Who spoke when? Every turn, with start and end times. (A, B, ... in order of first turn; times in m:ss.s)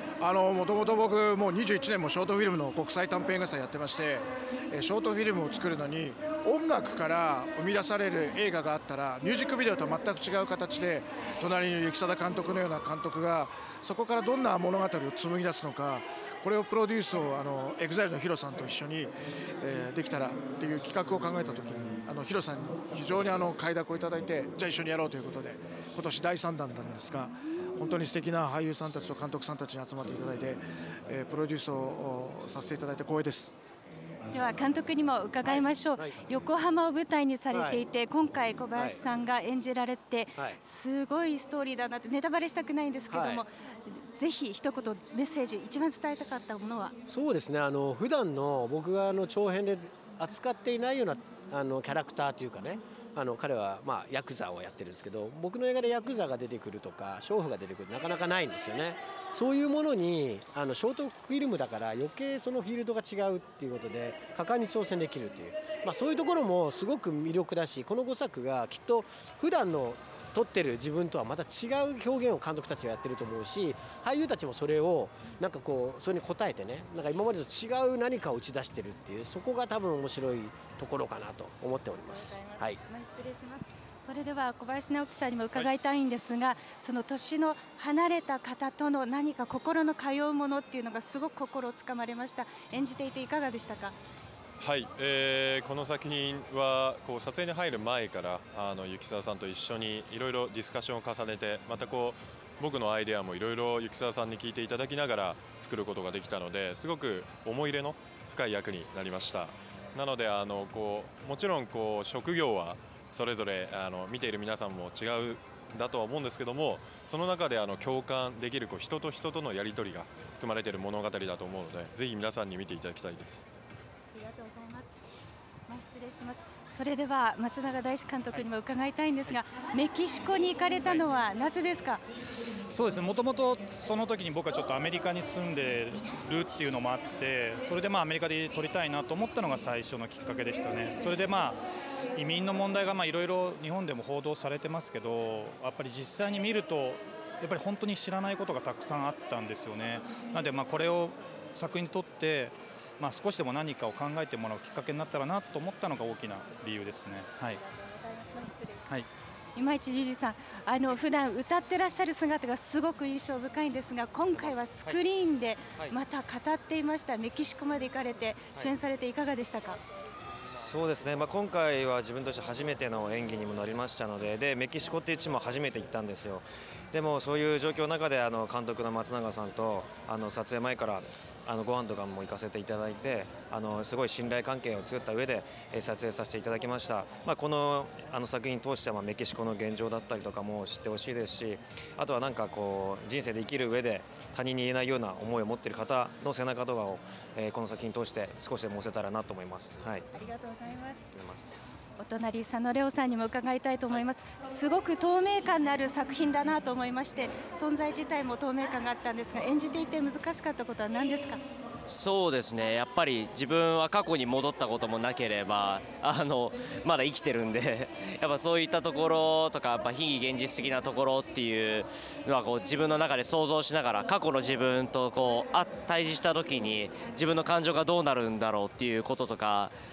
0:00.2-0:33.6 A
0:34.3-0:46.9 B
0:35.4-0:36.1 C
0:37.5-0:37.8 C
0:38.7-0:39.0 C
0:43.1-0:43.4 C
0:47.0-1:22.8 C
1:22.0-1:33.9 B
1:34.6-2:03.4 D
2:04.1-2:04.9 B
2:05.7-2:12.0 B
2:12.7-2:21.6 E
2:22.2-2:37.6 E
2:37.6-2:38.8 B
2:39.5-2:49.8 B
2:50.4-3:20.1 F
3:20.1-3:21.0 B
3:21.1-3:21.5 F
3:22.0-3:31.4 B
3:31.9-3:49.7 G